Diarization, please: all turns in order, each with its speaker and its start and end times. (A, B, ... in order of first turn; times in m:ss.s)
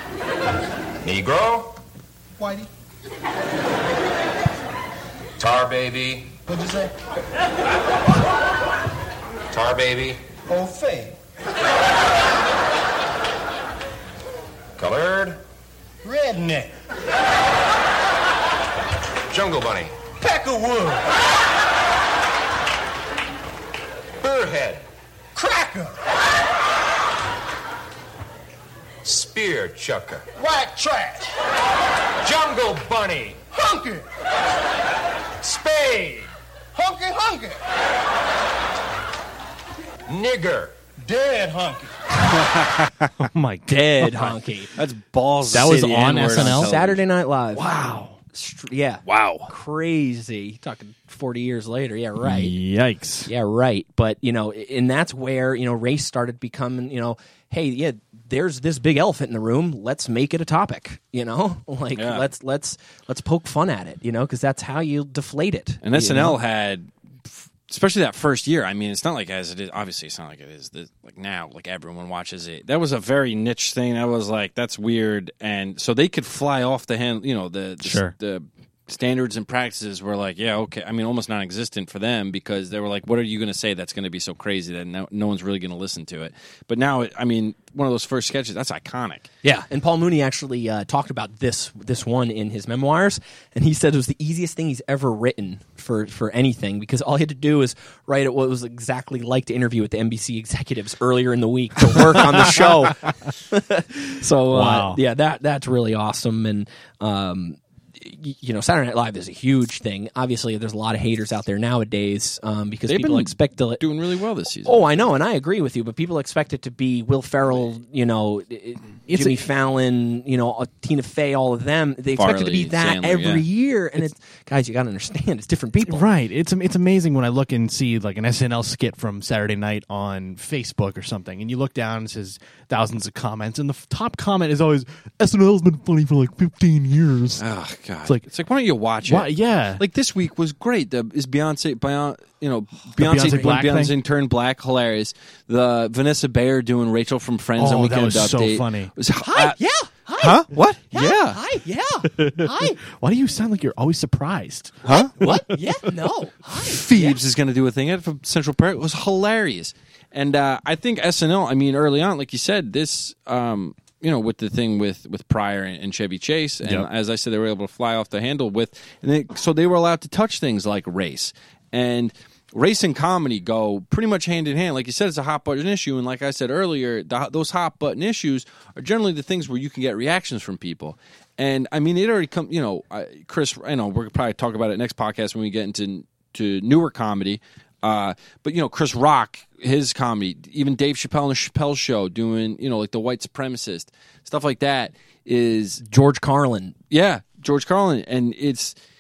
0:01.0-0:01.7 A
0:02.4-0:02.7 B
0:05.4-0:06.3 A
0:06.4-0:06.9 B
0:09.5-0:10.2 A
0:10.4-0:11.2 B
0:14.8-0:15.4 A
0:16.0-0:16.7 B
0:19.3-0:19.9 A
0:20.2-0:21.1 B
0:24.2-0:24.8 A
0:25.3-0:26.0 B
0:29.0-0:30.2 A
0:30.3-0:31.3 B
0:32.2-0:33.4 A
0:33.5-0:34.0 B
0:35.4-0:36.0 A
0:35.6-0:36.2 B
0:36.7-0:37.6 B
0:40.1-0:40.7 A
0:41.0-0:42.0 B
0:42.4-0:43.1 C
0:43.2-0:44.3 D
0:43.7-0:44.7 E
0:44.8-0:47.0 C
0:45.5-0:46.7 D
0:45.6-0:52.6 E
0:47.6-0:48.1 D
0:49.0-0:49.5 C
0:52.2-0:53.3 D
0:53.2-1:06.4 E
1:02.0-1:02.3 C
1:05.8-1:06.9 C
1:07.7-1:29.3 C
1:17.8-1:18.1 D
1:29.4-1:53.8 E
1:44.5-1:45.0 D
1:52.9-1:55.0 C
1:54.6-2:06.1 E
2:02.2-2:03.4 C
2:05.8-2:17.4 D
2:17.4-2:29.6 C
2:19.0-2:19.8 D
2:23.0-2:24.0 D
2:27.6-2:28.9 D
2:29.2-2:32.8 E
2:30.2-2:31.4 C
2:32.1-2:35.5 D
2:34.9-2:35.1 C
2:35.0-2:37.2 E
2:36.6-3:15.8 C
2:46.6-2:46.9 D
3:15.8-3:16.8 E
3:16.9-3:18.8 C